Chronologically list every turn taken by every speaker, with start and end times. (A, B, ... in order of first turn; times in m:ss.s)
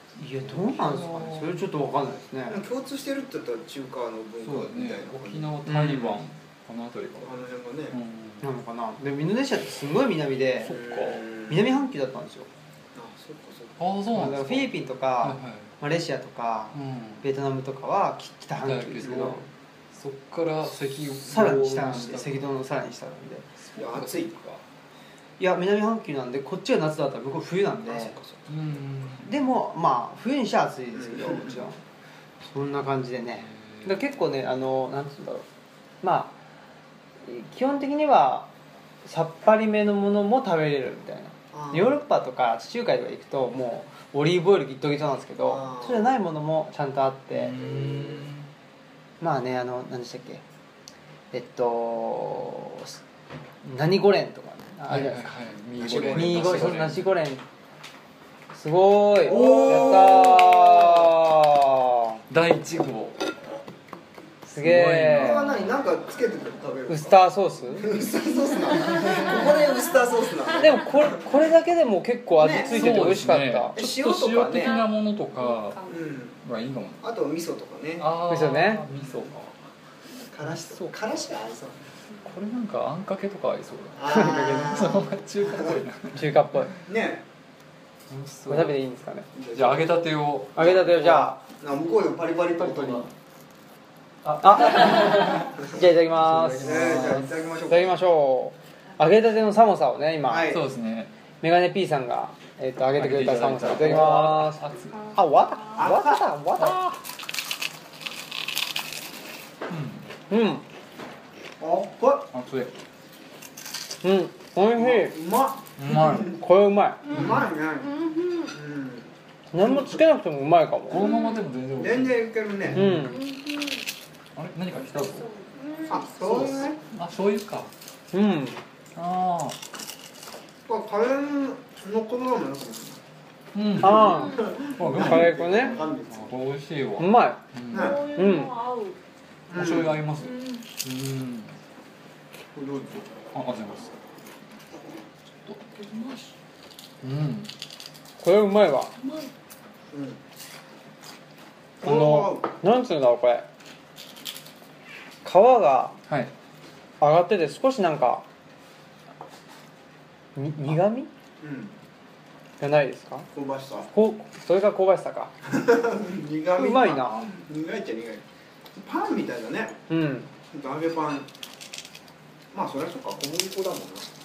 0:00.2-0:02.6 A
0:00.4-0:01.6 B
0:02.5-0:05.5 C
0:04.4-0:08.5 B
0:05.6-0:06.2 A
0:07.2-0:08.0 C
0:08.4-0:12.5 A
0:10.6-0:11.2 B
0:10.7-0:11.6 C
0:12.9-0:13.8 C
0:13.8-0:15.7 B
0:14.1-0:19.4 A
0:16.7-0:17.2 B
0:18.6-0:22.4 B
0:21.2-0:23.4 A
0:23.6-0:24.6 B
0:23.7-0:24.4 C
0:25.4-0:28.2 A
0:27.9-0:28.4 C
0:28.5-0:29.4 B
0:29.2-0:31.8 A
0:31.0-0:31.6 C
0:32.5-0:35.4 A
0:33.4-0:34.0 B
0:36.0-0:36.4 A
0:37.2-0:38.5 A
0:39.0-0:47.7 A
0:41.5-0:42.0 C
0:45.4-0:46.1 C
0:47.3-0:48.5 B
0:47.6-0:48.1 C
0:49.2-0:50.4 A
0:51.3-0:53.0 A
0:53.6-0:55.3 A
0:54.9-0:57.1 B
0:55.8-0:56.9 C
0:56.0-0:57.4 A
0:58.5-1:02.2 A
0:59.2-1:01.1 C
0:59.5-1:00.3 B
1:02.3-1:03.2 B
1:04.4-1:05.4 A
1:04.6-1:05.8 B
1:05.1-1:07.2 C
1:06.9-1:07.9 A
1:07.7-1:11.1 C
1:08.7-1:10.3 D
1:10.5-1:13.8 A
1:12.4-1:13.0 C
1:12.6-1:15.9 B
1:13.7-1:14.8 C
1:14.5-1:16.0 D
1:15.9-1:16.4 C
1:16.4-1:17.0 B
1:17.0-1:18.1 C
1:18.0-1:19.5 B
1:18.2-1:18.8 A
1:20.3-1:21.8 C
1:20.4-1:21.0 B
1:22.2-1:26.6 B
1:24.0-1:25.7 C
1:24.1-1:24.7 A
1:26.1-1:26.8 A
1:26.8-1:27.2 C
1:28.1-1:28.8 B
1:28.5-1:29.3 A
1:29.3-1:30.0 C
1:29.5-1:30.8 B
1:30.5-1:31.4 A
1:30.6-1:33.1 C
1:32.6-1:33.1 B
1:34.2-1:37.3 B
1:34.4-1:40.6 A
1:36.6-1:38.0 C
1:40.3-1:40.6 C
1:40.4-1:41.1 B
1:41.4-1:47.0 A
1:42.9-1:45.0 B
1:44.9-1:45.8 D
1:45.7-1:46.7 C
1:49.7-1:50.1 B
1:50.3-1:50.6 A
1:51.6-1:52.3 C
1:52.3-1:52.7 B
1:54.0-1:55.1 A
1:54.7-1:56.2 C
1:55.8-1:56.4 B
1:55.9-1:57.1 A
1:57.1-1:57.5 B
1:57.1-1:58.0 C
1:57.1-1:58.5 D
1:58.5-1:59.9 C
1:59.5-2:01.1 A
2:00.9-2:03.1 B
2:01.0-2:01.4 D
2:01.8-2:02.9 C
2:02.7-2:03.2 A
2:02.8-2:03.8 D
2:04.3-2:05.3 B
2:04.8-2:06.7 D
2:05.9-2:06.8 C
2:06.8-2:07.7 B
2:08.1-2:08.6 A
2:08.9-2:09.6 B
2:10.6-2:13.0 C
2:13.5-2:18.0 B
2:13.8-2:15.8 A
2:13.8-2:16.3 C
2:17.0-2:17.4 A
2:17.7-2:18.1 C
2:17.7-2:19.0 D
2:18.1-2:18.5 A
2:19.5-2:20.0 C
2:19.5-2:21.6 B
2:20.2-2:20.6 D
2:22.5-2:23.2 C
2:23.3-2:23.9 B
2:25.6-2:26.3 D
2:27.0-2:27.5 B
2:28.2-2:28.9 A
2:29.0-2:29.3 D
2:29.9-2:30.2 C
2:31.8-2:32.5 C
2:31.8-2:33.4 A
2:35.2-2:36.0 A
2:36.1-2:36.3 B
2:37.0-2:38.2 A
2:40.4-2:41.1 A
2:41.4-2:41.7 C
2:42.6-2:43.3 A
2:43.3-2:43.9 C
2:43.9-2:45.3 A
2:45.4-2:49.8 C
2:46.5-2:47.3 A
2:49.9-2:50.3 A
2:50.5-2:51.3 C
2:52.5-2:54.1 C